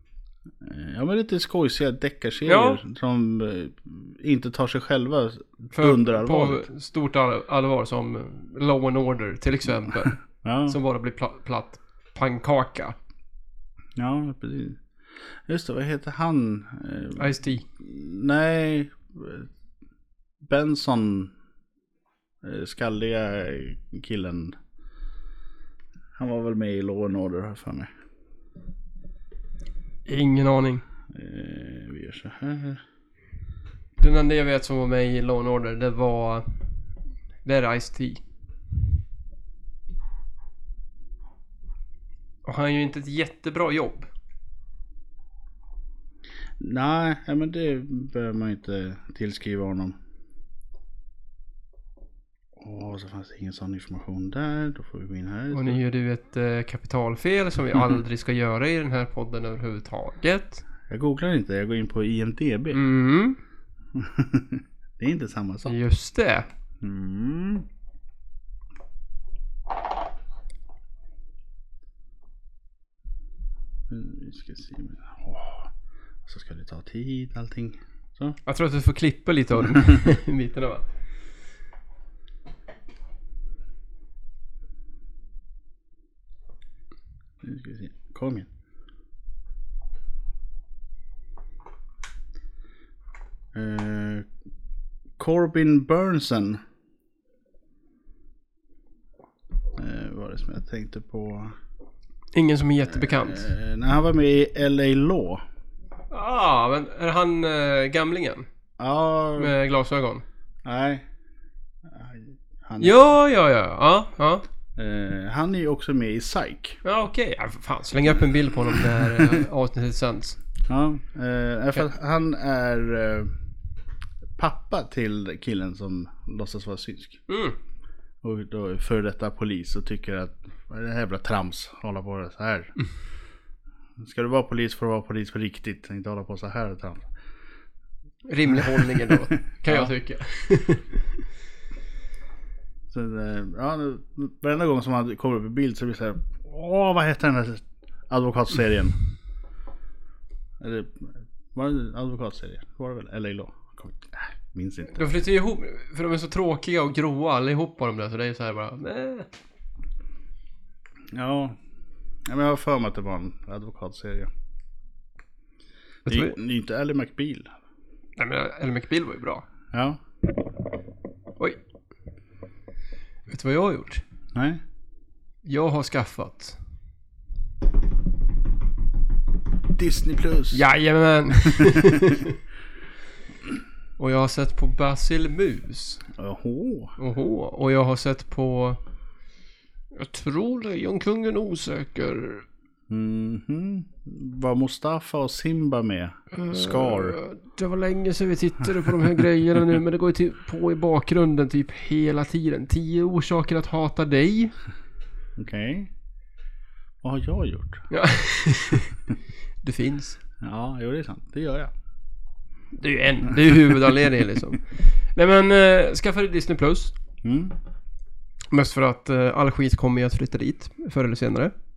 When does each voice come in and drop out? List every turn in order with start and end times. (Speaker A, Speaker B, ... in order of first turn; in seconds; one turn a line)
Speaker A: 0.6-6.7
Speaker B: 2.5-2.8
Speaker B: 5.7-13.0
Speaker A: 10.4-10.8
Speaker A: 14.0-14.8
Speaker A: 15.5-19.5
Speaker B: 17.2-17.7
Speaker A: 20.4-21.3
Speaker A: 22.4-24.6
Speaker A: 26.2-27.9
Speaker B: 30.1-30.8
Speaker A: 31.1-32.8
Speaker B: 34.0-36.5
Speaker B: 37.4-38.2
Speaker B: 42.5-44.1
Speaker A: 46.6-50.0
Speaker A: 52.6-55.8
Speaker B: 55.5-60.6
Speaker A: 60.9-62.8
Speaker B: 62.7-63.4
Speaker A: 63.9-65.8
Speaker B: 65.7-66.5
Speaker A: 66.8-67.7
Speaker A: 73.9-75.7
Speaker A: 76.3-78.4
Speaker B: 78.5-80.8
Speaker A: 87.4-88.5
Speaker A: 93.5-94.3
Speaker A: 95.2-96.6
Speaker A: 99.8-101.5
Speaker B: 102.3-103.5
Speaker A: 103.0-105.4
Speaker B: 106.1-108.5
Speaker A: 108.8-109.5
Speaker B: 109.4-110.2
Speaker A: 110.7-111.0
Speaker A: 111.9-113.0
Speaker B: 112.8-114.5
Speaker A: 114.8-116.8
Speaker B: 116.8-120.4
Speaker A: 119.1-119.4
Speaker A: 120.7-123.3
Speaker A: 124.4-127.3
Speaker B: 127.3-127.6
Speaker A: 128.2-132.7
Speaker A: 134.0-137.1
Speaker B: 138.3-141.0
Speaker A: 138.5-139.9
Speaker A: 142.9-149.0
Speaker A: 150.6-155.0
Speaker B: 154.9-159.3
Speaker A: 161.1-161.6
Speaker A: 162.3-164.3
Speaker B: 166.1-166.3
Speaker A: 166.1-167.5
Speaker B: 168.2-169.4
Speaker A: 169.7-170.0
Speaker B: 173.3-174.0
Speaker A: 174.3-174.6
Speaker B: 175.4-176.6
Speaker A: 179.7-180.6
Speaker B: 180.5-182.4
Speaker A: 181.4-182.2
Speaker B: 184.0-186.1
Speaker A: 186.1-186.9
Speaker B: 187.0-188.8
Speaker B: 189.9-192.4
Speaker A: 192.9-197.2
Speaker B: 196.3-204.5
Speaker A: 205.4-205.9
Speaker A: 207.0-207.9
Speaker B: 207.9-209.0
Speaker B: 209.6-210.2
Speaker A: 210.4-211.7
Speaker B: 212.8-216.9
Speaker A: 217.2-217.6
Speaker B: 218.5-221.5